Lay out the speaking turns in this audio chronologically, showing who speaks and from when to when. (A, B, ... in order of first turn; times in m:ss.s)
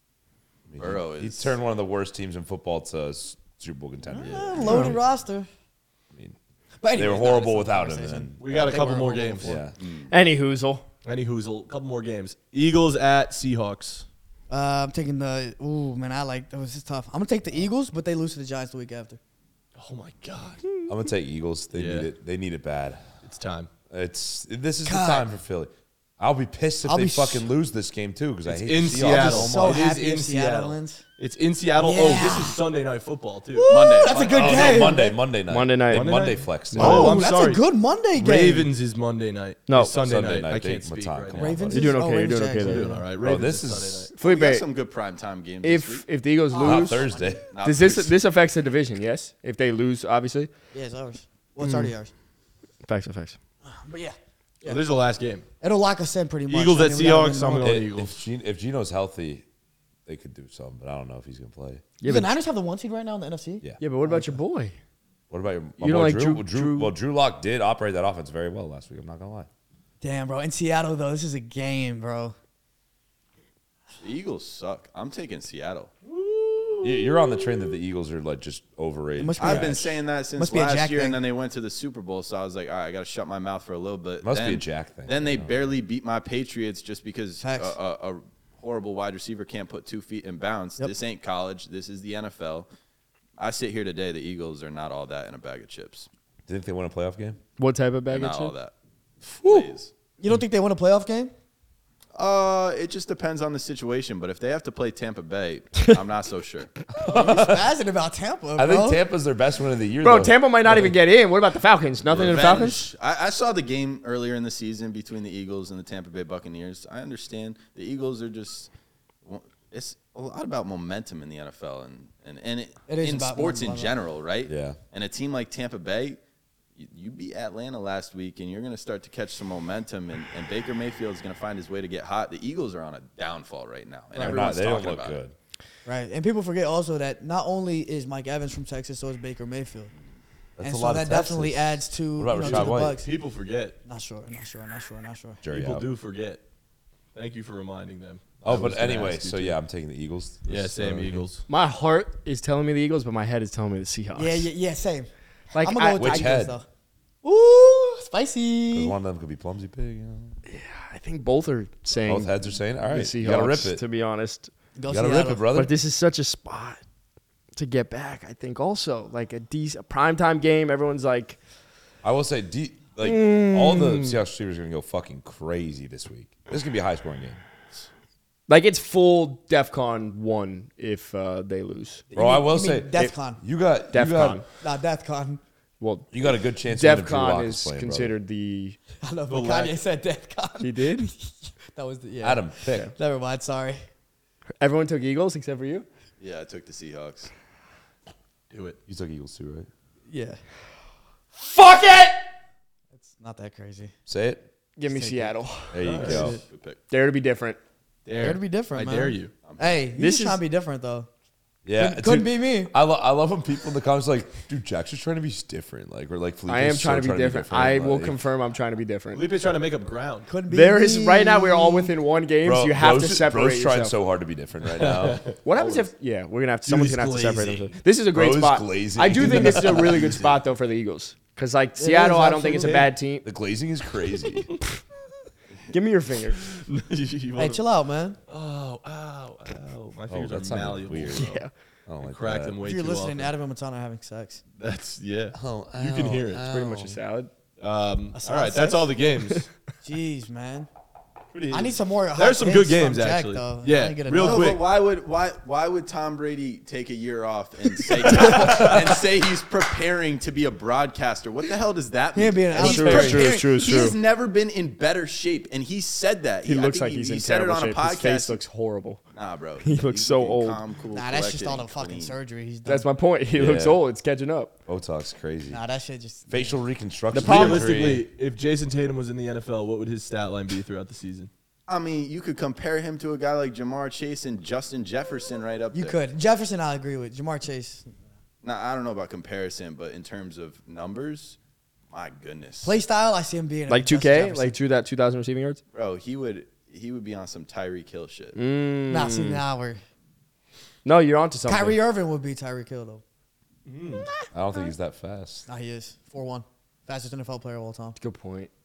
0:00.7-0:05.0 A
0:00.8-0:01.6 B
0:04.1-0:05.5 C
0:04.6-0:05.0 D
0:06.8-0:09.6 C
0:06.9-0:08.4 A
0:08.4-0:09.6 E
0:09.4-0:09.7 A
0:09.8-0:10.1 B
0:10.1-0:10.8 D
0:11.0-0:14.1 E
0:14.5-0:19.2 C
0:19.7-0:20.7 E
0:20.9-0:23.1 A
0:21.7-0:22.1 E
0:23.2-0:23.7 E
0:23.9-0:29.8 A
0:24.8-0:25.3 C
0:26.8-0:27.4 C
0:28.5-0:34.9 E
0:28.9-0:31.0 C
0:31.8-0:32.6 C
0:33.5-0:35.2 C
0:33.7-0:35.0 B
0:34.3-0:37.2 A
0:35.5-0:37.2 D
0:35.9-0:41.8 E
0:36.8-0:38.7 C
0:39.7-0:40.0 D
0:40.0-0:42.0 A
0:41.3-0:43.1 C
0:41.7-0:43.0 D
0:42.6-0:44.1 E
0:43.2-0:44.1 A
0:44.2-0:44.6 D
0:44.2-0:46.0 B
0:45.6-0:47.0 D
0:46.5-0:47.4 C
0:46.6-0:47.4 A
0:47.5-0:48.1 B
0:47.6-0:50.5 D
0:50.7-0:52.1 C
0:51.6-0:51.9 D
0:52.8-0:53.4 D
0:53.7-0:54.8 C
0:54.6-0:55.4 E
0:55.6-0:57.8 C
0:56.5-0:58.1 E
0:57.6-0:59.4 A
1:00.0-1:01.8 A
1:02.0-1:02.3 D
1:02.0-1:04.4 C
1:03.8-1:04.7 D
1:05.3-1:09.5 A
1:05.8-1:06.9 D
1:10.0-1:12.3 C
1:14.0-1:15.9 B
1:16.0-1:16.9 E
1:16.8-1:19.8 A
1:19.2-1:21.2 C
1:19.4-1:32.7 B
1:24.2-1:25.5 A
1:27.4-1:27.8 C
1:33.4-1:36.1 B
1:36.5-1:37.4 A
1:37.6-1:38.5 D
1:38.1-1:38.7 B
1:39.4-1:39.9 B
1:40.2-1:41.3 C
1:42.2-1:46.7 B
1:47.0-1:47.7 A
1:47.0-1:49.0 C
1:48.6-1:50.9 A
1:50.0-1:52.8 D
1:52.0-1:58.7 B
1:59.2-2:06.2 B
2:02.9-2:03.9 C
2:04.4-2:04.8 A
2:06.8-2:15.2 B
2:14.2-2:15.3 A
2:15.8-2:19.9 C
2:20.6-2:23.0 A
2:20.6-2:23.1 C
2:22.3-2:23.8 E
2:23.8-2:25.4 C
2:25.4-2:25.9 A
2:25.5-2:26.4 E
2:27.1-2:29.6 E
2:28.4-2:31.2 A
2:30.4-2:31.4 E
2:31.5-2:34.5 D
2:34.1-2:36.6 C
2:35.5-2:36.3 D
2:36.0-2:36.5 A
2:37.2-2:38.9 C
2:38.7-2:40.4 A
2:40.5-2:42.3 D
2:42.0-2:43.8 A
2:42.8-2:44.5 D
2:44.8-2:45.4 C
2:44.9-2:45.7 A
2:45.5-2:46.8 D
2:47.6-2:51.4 D
2:52.0-2:57.4 A
2:53.0-2:54.2 D
2:58.5-3:02.0 D
3:02.1-3:03.4 C
3:02.1-3:04.4 A
3:03.9-3:04.4 D
3:04.6-3:05.4 C
3:05.8-3:08.8 D
3:06.1-3:08.1 A
3:09.0-3:13.8 C
3:09.3-3:09.8 E
3:10.6-3:11.1 D
3:12.2-3:12.9 A
3:14.6-3:15.8 D
3:16.2-3:17.3 B
3:18.5-3:18.8 E
3:18.9-3:19.7 A
3:20.1-3:20.4 C
3:21.4-3:22.2 D
3:22.9-3:23.9 C
3:24.1-3:24.4 A
3:24.8-3:26.2 D
3:24.9-3:25.3 C
3:25.7-3:26.4 A
3:25.8-3:26.3 E
3:26.0-3:26.4 C
3:26.1-3:26.8 B
3:26.9-3:27.6 D
3:28.0-3:29.4 E
3:28.2-3:31.1 C
3:29.4-3:29.8 B
3:30.0-3:30.4 D
3:31.6-3:38.2 A
3:31.8-3:32.7 C
3:36.5-3:39.2 D
3:39.1-3:40.3 E
3:40.3-3:41.9 C
3:40.5-3:43.9 D
3:42.4-3:45.2 A
3:44.6-3:45.9 E
3:45.4-3:53.2 D
3:46.6-3:47.8 E
3:48.1-3:49.9 A
3:49.1-3:50.4 E
3:51.8-3:52.9 C
3:53.2-3:54.5 A
3:55.7-3:56.4 D
3:56.4-3:57.6 E
3:57.4-3:58.2 C
3:58.3-4:01.4 E
4:00.1-4:02.6 A
4:01.1-4:01.5 D
4:02.0-4:03.3 E
4:02.6-4:04.4 C
4:04.6-4:06.4 E
4:05.3-4:07.0 A
4:06.4-4:07.3 D
4:07.6-4:09.5 E
4:08.1-4:08.9 C
4:09.8-4:10.7 C
4:11.3-4:14.6 E
4:11.5-4:14.6 C
4:14.1-4:28.4 B
4:18.0-4:18.6 C
4:18.5-4:18.7 A
4:22.1-4:23.4 C
4:22.6-4:24.0 D
4:26.4-4:29.0 D
4:29.1-4:32.2 B
4:29.6-4:30.6 D
4:30.9-4:32.8 C
4:32.6-4:34.5 D
4:33.4-4:33.8 A
4:34.7-4:35.6 A
4:35.5-4:36.6 C
4:36.3-4:38.0 A
4:37.1-4:37.8 D
4:37.1-4:41.3 E
4:41.7-4:46.0 B
4:45.7-4:47.9 C
4:48.4-4:51.4 B
4:51.9-4:52.8 B
4:52.6-4:54.6 C
4:53.7-4:55.6 D
4:55.7-4:58.4 B
4:58.3-4:59.4 D
4:58.9-4:59.8 C
5:00.8-5:01.8 D
5:01.5-5:03.0 C
5:03.6-5:04.1 E
5:04.3-5:05.5 A
5:05.5-5:08.0 C
5:08.0-5:08.5 D